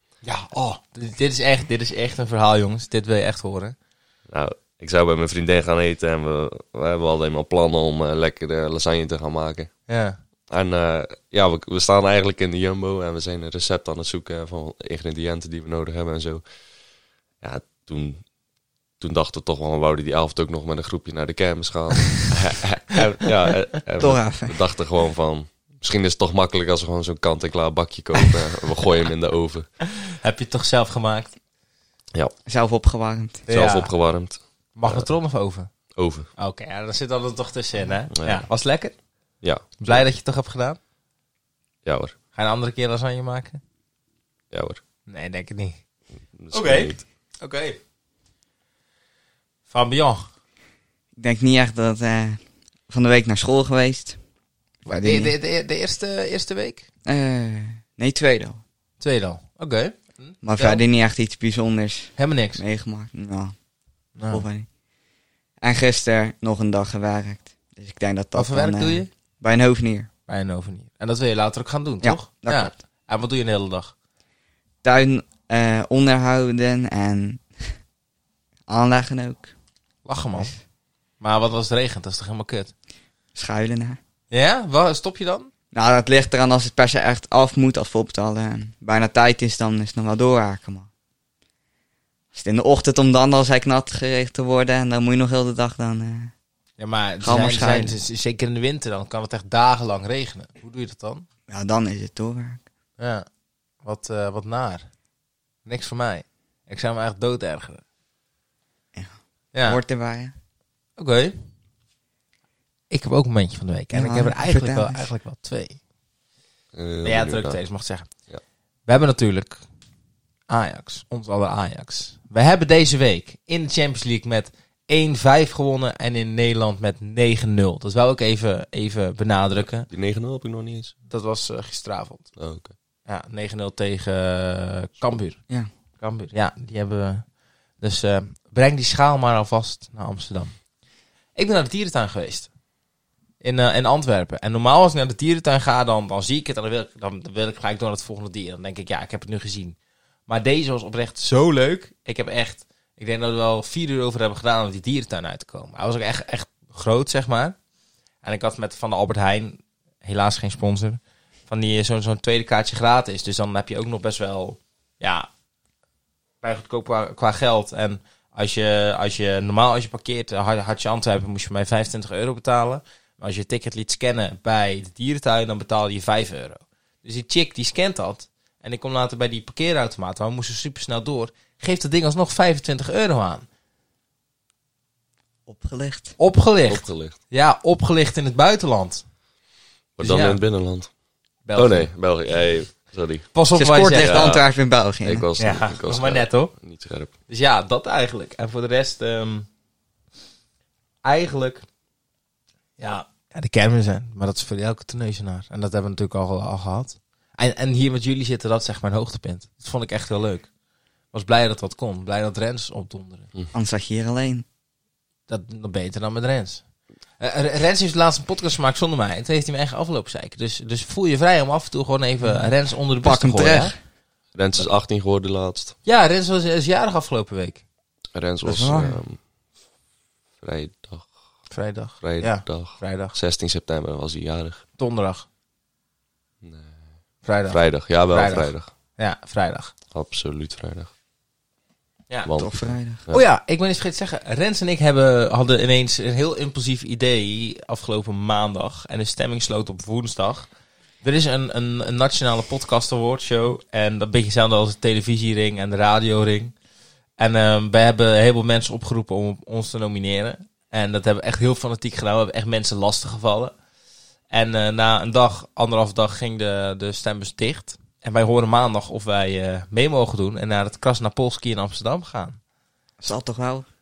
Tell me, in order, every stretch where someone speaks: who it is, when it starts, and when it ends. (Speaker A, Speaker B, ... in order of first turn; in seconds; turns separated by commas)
Speaker A: 0.2-3.8, Speaker B: 4.3-9.7, Speaker A: 9.9-10.2, Speaker B: 10.5-16.4, Speaker B: 17.4-18.2, Speaker B: 19.0-29.7, Speaker C: 24.0-24.6, Speaker A: 29.9-31.3, Speaker C: 32.5-33.5, Speaker A: 33.5-33.9, Speaker B: 33.5-35.1, Speaker A: 34.8-35.7, Speaker B: 36.0-36.3, Speaker A: 36.4-39.0, Speaker B: 38.1-38.5, Speaker B: 39.4-40.0, Speaker A: 39.8-40.8, Speaker B: 41.9-42.1, Speaker A: 42.4-43.6, Speaker B: 44.5-44.8, Speaker A: 45.1-45.8, Speaker B: 46.4-47.0, Speaker A: 46.5-47.8, Speaker A: 49.7-50.3, Speaker C: 51.2-54.2, Speaker C: 54.9-55.3, Speaker A: 55.0-56.8, Speaker C: 57.1-58.6, Speaker A: 59.0-60.8, Speaker C: 60.4-63.5, Speaker A: 62.2-62.6, Speaker A: 64.2-64.4, Speaker C: 64.3-64.7, Speaker C: 65.6-70.1, Speaker A: 68.3-69.1, Speaker A: 70.3-73.9, Speaker C: 72.0-72.7, Speaker C: 74.8-77.7, Speaker C: 78.7-79.5, Speaker A: 80.1-80.5, Speaker A: 81.2-82.7, Speaker C: 83.3-84.0, Speaker A: 84.3-85.5, Speaker C: 85.7-90.9, Speaker C: 92.3-96.3, Speaker A: 96.8-101.3, Speaker C: 97.2-98.0, Speaker C: 101.5-102.6, Speaker A: 103.0-103.3, Speaker A: 103.8-104.9, Speaker A: 105.7-107.8, Speaker A: 109.5-109.8, Speaker C: 109.7-110.3, Speaker A: 111.0-111.4, Speaker A: 112.9-115.8, Speaker C: 113.9-115.1, Speaker B: 116.7-117.6, Speaker A: 117.0-118.1, Speaker A: 118.9-119.6, Speaker A: 120.5-129.9, Speaker B: 129.9-130.9, Speaker A: 131.1-132.3, Speaker B: 132.4-132.7, Speaker A: 133.1-135.4, Speaker A: 136.0-137.3, Speaker A: 137.8-140.5, Speaker A: 141.3-142.5, Speaker A: 143.4-149.8, Speaker A: 150.3-157.6, Speaker A: 158.2-165.3, Speaker A: 166.4-183.5, Speaker C: 185.5-186.2, Speaker A: 186.2-189.1, Speaker B: 186.7-187.2, Speaker B: 190.0-190.9, Speaker A: 190.0-190.4, Speaker A: 191.5-191.9, Speaker B: 191.6-193.3, Speaker A: 193.3-194.4, Speaker C: 193.5-195.3, Speaker B: 194.0-194.5, Speaker B: 195.0-197.1, Speaker A: 195.4-196.5, Speaker A: 197.3-199.5, Speaker A: 201.0-201.7, Speaker A: 202.8-210.5, Speaker A: 211.1-213.3, Speaker C: 213.5-214.4, Speaker A: 215.3-216.6, Speaker A: 217.2-223.7, Speaker C: 223.0-223.8, Speaker B: 224.3-225.8, Speaker A: 225.8-227.6, Speaker B: 228.2-229.2, Speaker C: 228.4-229.0, Speaker B: 230.4-231.1, Speaker A: 231.5-233.2, Speaker B: 232.0-234.6, Speaker A: 234.8-235.3, Speaker B: 236.4-236.8, Speaker A: 237.2-239.7, Speaker B: 237.5-238.7, Speaker B: 239.9-240.9, Speaker B: 242.2-243.2, Speaker C: 242.3-243.0, Speaker A: 243.1-250.5, Speaker A: 251.0-256.5, Speaker A: 257.2-263.6, Speaker A: 264.3-272.4, Speaker C: 273.0-273.7